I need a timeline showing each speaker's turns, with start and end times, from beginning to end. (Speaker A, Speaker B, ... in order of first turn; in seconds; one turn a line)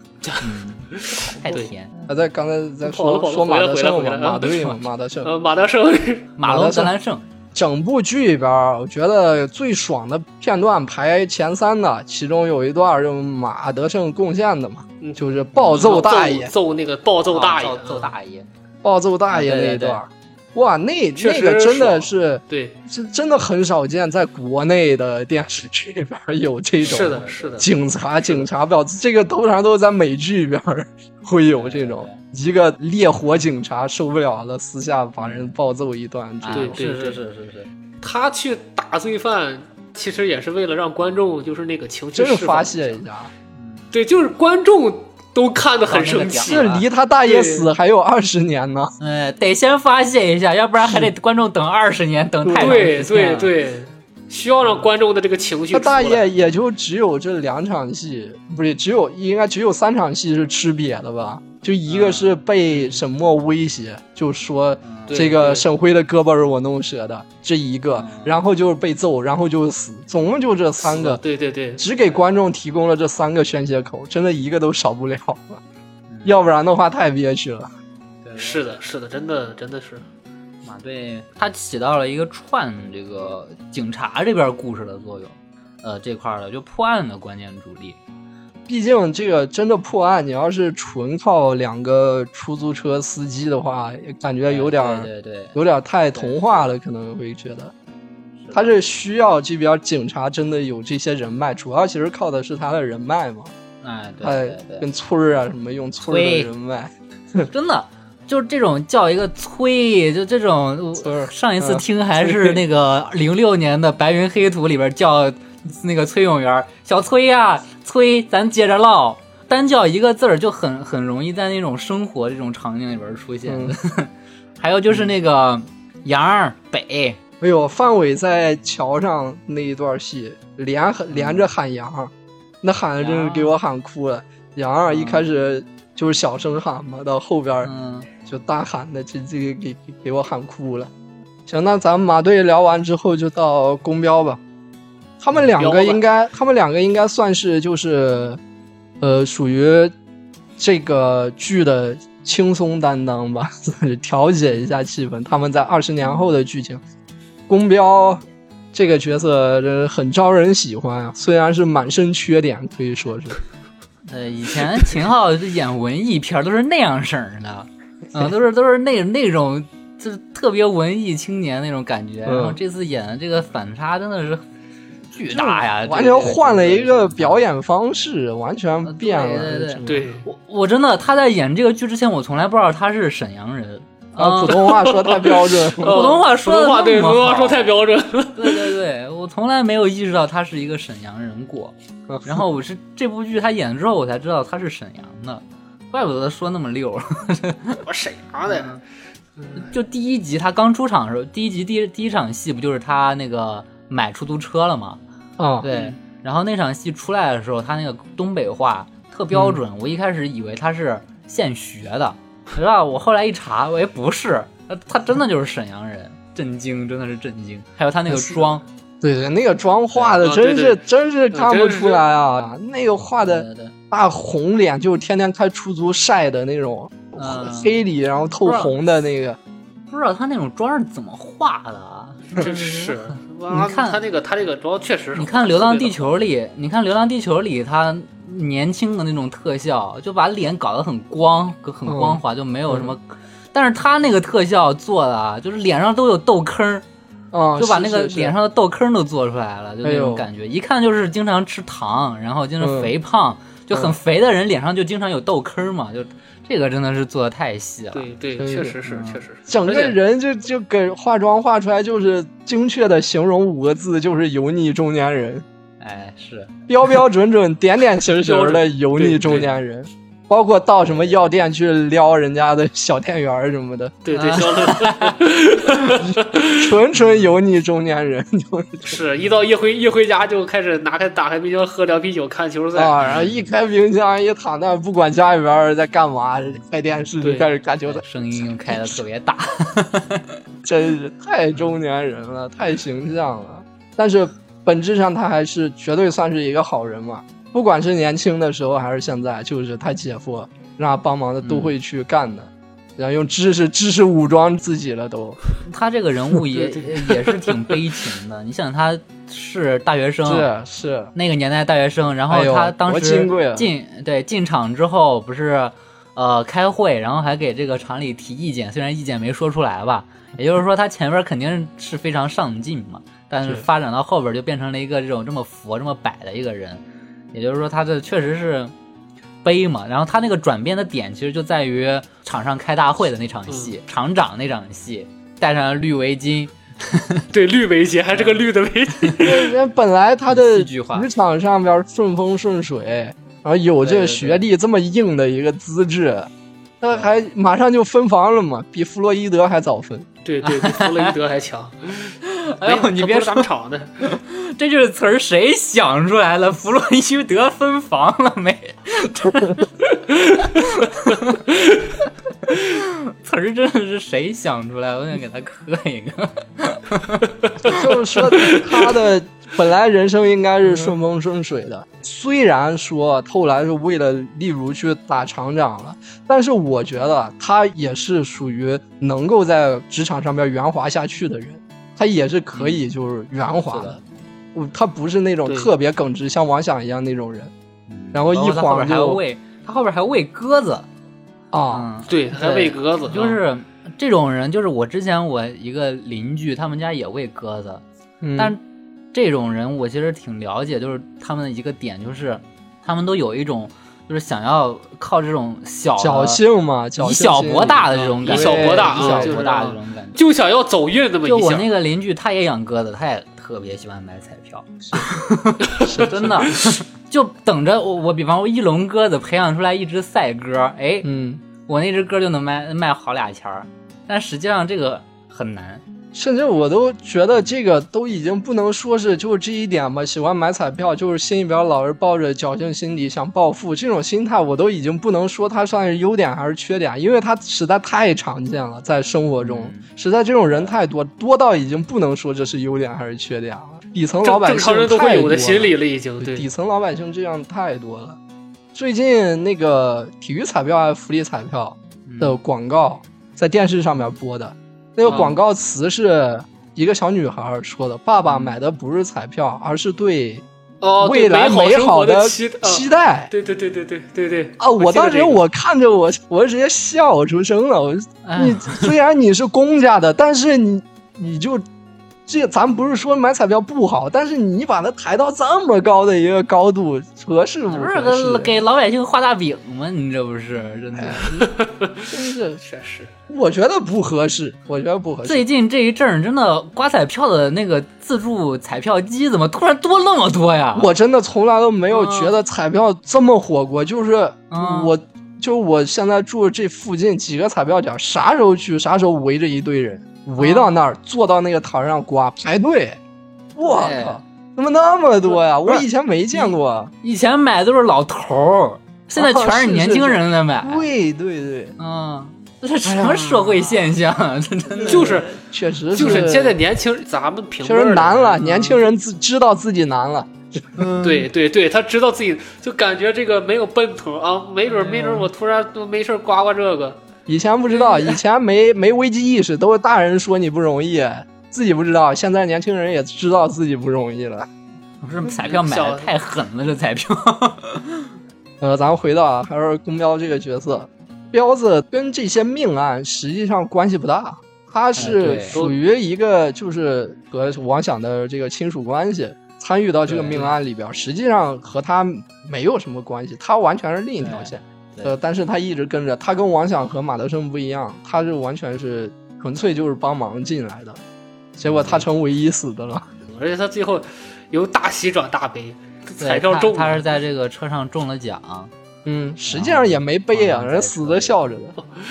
Speaker A: 0.2-1.7
Speaker B: 0.4-2.0
Speaker C: 2.1-5.3
Speaker A: 2.8-6.3
Speaker B: 6.4-7.2
Speaker C: 6.4-6.9
Speaker C: 7.5-16.5
Speaker A: 15.0-18.1
Speaker B: 17.3-18.5
Speaker C: 18.8-36.8
Speaker B: 19.3-20.0
Speaker A: 21.2-22.8
Speaker B: 26.8-27.7
Speaker A: 26.8-27.7
Speaker B: 31.6-32.2
Speaker B: 35.2-35.5
Speaker B: 36.4-37.7
Speaker A: 36.5-37.2
Speaker A: 38.0-43.0
Speaker C: 42.1-43.3
Speaker B: 43.5-43.9
Speaker A: 43.9-46.7
Speaker B: 45.8-46.8
Speaker C: 46.4-48.9
Speaker A: 47.2-47.7
Speaker B: 49.0-53.5
Speaker C: 52.4-52.9
Speaker A: 52.5-56.3
Speaker C: 55.7-71.2
Speaker B: 61.9-62.1
Speaker B: 64.8-65.2
Speaker A: 65.1-65.7
Speaker B: 67.9-68.3
Speaker A: 70.8-71.8
Speaker C: 71.8-75.6
Speaker B: 76.1-76.4
Speaker C: 76.2-77.7
Speaker B: 78.2-78.7
Speaker A: 78.4-80.0
Speaker B: 80.6-88.0
Speaker C: 88.7-97.7
Speaker B: 94.5-95.6
Speaker B: 96.1-96.6
Speaker B: 98.4-98.7
Speaker C: 98.5-103.5
Speaker B: 103.8-104.9
Speaker C: 104.2-107.5
Speaker B: 106.0-106.5
Speaker B: 107.5-127.2
Speaker C: 111.0-112.6
Speaker C: 123.5-123.8
Speaker C: 127.4-137.7
Speaker B: 131.1-131.5
Speaker B: 133.0-133.5
Speaker B: 134.9-135.2
Speaker B: 137.6-138.1
Speaker C: 138.2-140.9
Speaker C: 141.5-144.4
Speaker C: 145.2-148.4
Speaker A: 145.5-146.0
Speaker C: 149.0-149.9
Speaker C: 150.6-156.8
Speaker C: 157.5-158.2
Speaker C: 158.7-163.4
Speaker B: 164.1-174.4
Speaker C: 172.2-172.6
Speaker B: 175.1-177.4
Speaker C: 175.3-180.1
Speaker B: 178.8-184.9
Speaker A: 179.8-180.2
Speaker C: 184.2-186.1
Speaker A: 184.5-188.7
Speaker B: 185.8-187.6
Speaker B: 188.3-191.7
Speaker C: 192.1-192.4
Speaker B: 192.2-197.8
Speaker A: 197.8-198.7
Speaker B: 198.5-198.8
Speaker A: 199.4-199.6
Speaker B: 199.6-205.0
Speaker C: 205.4-205.7
Speaker B: 205.6-218.6
Speaker A: 205.7-205.9
Speaker C: 209.3-209.6
Speaker C: 218.1-218.4
Speaker C: 219.0-229.4
Speaker A: 220.2-222.0
Speaker B: 223.2-223.7
Speaker B: 227.2-227.8
Speaker B: 228.4-228.8
Speaker B: 229.9-234.0
Speaker A: 232.3-236.1
Speaker B: 235.1-246.8
Speaker C: 241.8-242.9
Speaker C: 247.3-248.3
Speaker B: 247.6-258.0
Speaker C: 249.8-250.2
Speaker C: 252.6-252.9
Speaker C: 253.7-253.9
Speaker A: 257.9-260.0
Speaker C: 258.4-258.8
Speaker B: 258.8-259.2
Speaker C: 259.5-265.4
Speaker B: 265.8-266.5
Speaker C: 266.7-273.9
Speaker A: 268.2-269.5
Speaker A: 274.0-276.8
Speaker B: 274.1-275.2
Speaker C: 276.1-279.0
Speaker A: 278.9-283.0
Speaker C: 282.8-289.0
Speaker B: 283.0-283.4
Speaker A: 287.2-287.5
Speaker B: 287.9-290.4
Speaker C: 290.6-305.4
Speaker B: 301.4-301.7
Speaker B: 305.6-310.5
Speaker A: 306.5-307.8
Speaker C: 310.2-311.1
Speaker B: 311.1-326.8
Speaker C: 312.3-313.7
Speaker B: 327.3-328.7
Speaker B: 329.4-337.3
Speaker A: 333.5-333.7
Speaker A: 337.3-339.5
Speaker B: 338.1-338.4
Speaker C: 339.2-346.3
Speaker B: 340.3-341.1
Speaker B: 343.8-344.4
Speaker C: 346.8-350.1
Speaker A: 350.2-354.1
Speaker B: 350.4-351.1
Speaker B: 352.2-353.5
Speaker B: 354.0-359.6
Speaker A: 360.1-360.6
Speaker B: 360.5-361.4
Speaker A: 361.5-361.9
Speaker B: 362.4-367.8
Speaker C: 367.6-384.0
Speaker A: 368.4-368.8
Speaker B: 382.5-382.8
Speaker B: 383.7-384.0
Speaker C: 384.5-387.5
Speaker A: 385.4-385.7
Speaker B: 387.9-390.9
Speaker C: 388.1-389.2
Speaker C: 391.5-391.9
Speaker B: 391.7-397.8
Speaker A: 392.1-393.4
Speaker C: 398.2-398.5
Speaker B: 399.1-406.4
Speaker C: 406.0-409.4
Speaker B: 407.0-410.2
Speaker A: 407.9-411.7
Speaker B: 411.2-421.1
Speaker C: 415.9-416.3
Speaker A: 416.5-416.7
Speaker C: 421.0-421.4
Speaker B: 421.7-425.8
Speaker C: 426.1-448.2
Speaker B: 439.4-439.9
Speaker A: 444.2-446.5
Speaker C: 448.7-460.4
Speaker B: 452.1-452.4
Speaker A: 455.1-455.4
Speaker B: 458.3-458.5
Speaker A: 460.8-465.4
Speaker C: 461.0-463.3
Speaker C: 464.6-471.6
Speaker B: 468.2-468.9
Speaker C: 472.3-478.6
Speaker B: 477.7-481.4
Speaker C: 480.9-481.3
Speaker A: 481.4-482.1
Speaker C: 482.1-482.6
Speaker A: 482.6-483.1
Speaker C: 483.3-485.4
Speaker B: 485.2-490.9
Speaker C: 490.7-503.0
Speaker B: 491.9-492.3
Speaker B: 494.5-494.9
Speaker B: 500.4-500.8
Speaker C: 503.5-506.9
Speaker B: 503.6-504.2
Speaker B: 505.6-506.5
Speaker B: 507.0-510.9
Speaker C: 509.1-511.8
Speaker B: 511.8-515.2
Speaker C: 512.8-513.7
Speaker C: 514.8-516.6
Speaker A: 514.8-515.4
Speaker A: 515.9-518.6
Speaker C: 517.6-520.9
Speaker B: 520.8-521.3
Speaker A: 521.0-527.0
Speaker B: 524.7-525.2
Speaker C: 527.3-534.5
Speaker B: 535.0-538.1
Speaker A: 535.4-536.1
Speaker C: 538.6-561.0
Speaker B: 545.0-545.6
Speaker A: 545.0-545.8
Speaker B: 550.1-550.5
Speaker B: 554.2-555.1
Speaker C: 561.5-563.1
Speaker B: 561.6-562.0
Speaker A: 563.3-567.0
Speaker B: 566.2-568.7
Speaker C: 569.0-571.8
Speaker B: 569.5-571.4